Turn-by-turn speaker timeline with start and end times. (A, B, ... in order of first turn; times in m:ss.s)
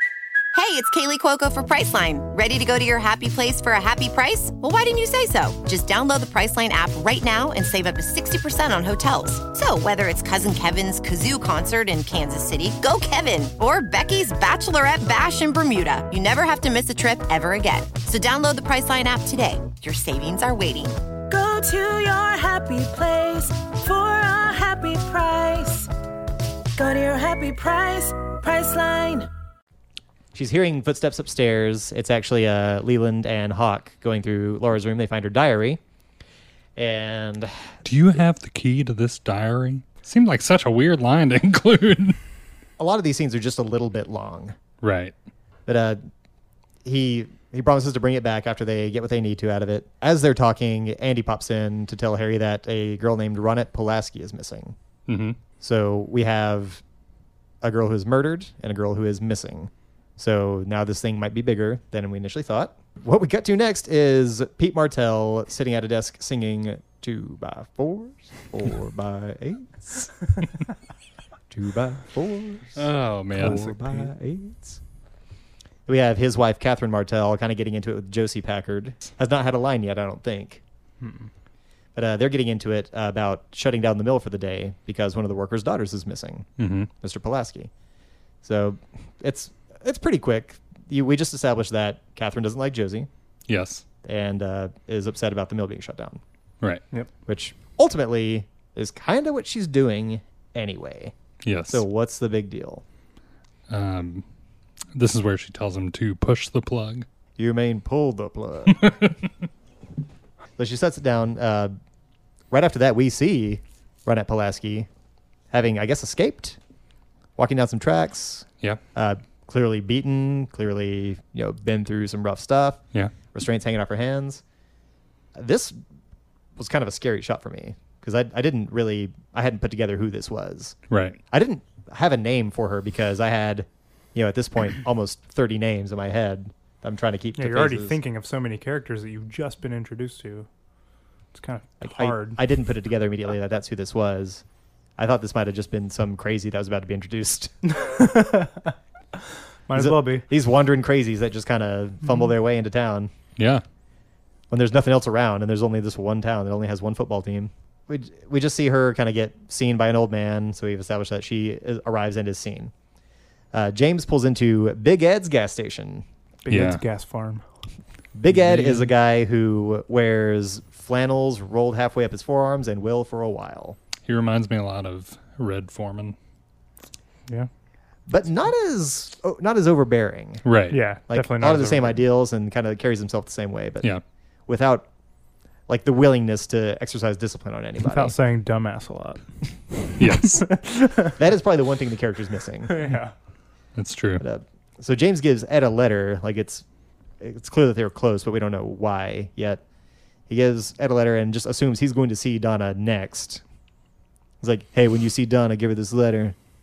0:00.5-0:21.0 A
0:21.3-0:25.9 B
0:26.8-0:29.3 B
0:30.3-0:35.8 C
0:36.8-0:37.7 C
0:37.8-0:42.2 D
0:42.8-0:44.6 C
0:44.8-0:45.1 D
0:45.6-0:46.0 C
0:46.8-0:54.8 C
0:55.1-0:55.4 D
0:55.6-0:56.8 C
0:57.6-1:10.3 C
1:11.5-1:14.8 C
1:12.7-1:14.0 D
1:15.9-1:20.6 C
1:21.0-1:21.3 E
1:22.0-1:26.5 C
1:26.6-1:26.9 D
1:27.0-1:27.7 C
1:28.4-1:33.1 C
1:33.5-1:33.8 D
1:34.0-1:36.2 C
1:37.2-1:41.1 C
1:41.4-1:41.8 D
1:41.7-1:42.8 C
1:43.7-1:44.2 D
1:44.9-1:47.0 D
1:47.4-1:48.9 C
1:48.7-1:49.2 D
1:50.6-1:51.7 C
1:52.5-1:54.9 C
1:55.5-1:56.6 C
1:57.4-2:02.8 C
2:03.3-2:04.4 C
2:05.3-2:05.7 C
2:06.6-2:10.8 C
2:10.9-2:11.2 D
2:11.3-2:18.0 C
2:17.4-2:20.5 E
2:21.3-2:22.4 E
2:21.8-2:24.4 C
2:25.0-2:27.5 C
2:27.6-2:28.7 E
2:29.7-2:30.2 E
2:29.7-2:33.1 C
2:33.4-2:33.6 D
2:34.5-2:42.7 C
2:43.5-2:46.0 C
2:46.4-2:47.4 E
2:46.5-2:46.8 D
2:48.1-2:53.8 C
2:48.3-2:48.9 E
2:54.0-2:56.2 D
2:58.1-3:00.4 C
3:00.4-3:00.8 D
3:00.7-3:02.0 E
3:01.1-3:03.9 C
3:04.5-3:04.9 C
3:05.7-3:08.1 C
3:07.8-3:09.2 E
3:09.9-3:11.2 E
3:10.0-3:10.4 D
3:11.2-3:12.8 C
3:12.6-3:13.1 E
3:13.8-3:14.2 D
3:14.2-3:16.6 C
3:17.2-3:19.6 C
3:20.3-3:23.4 C
3:24.4-3:26.4 C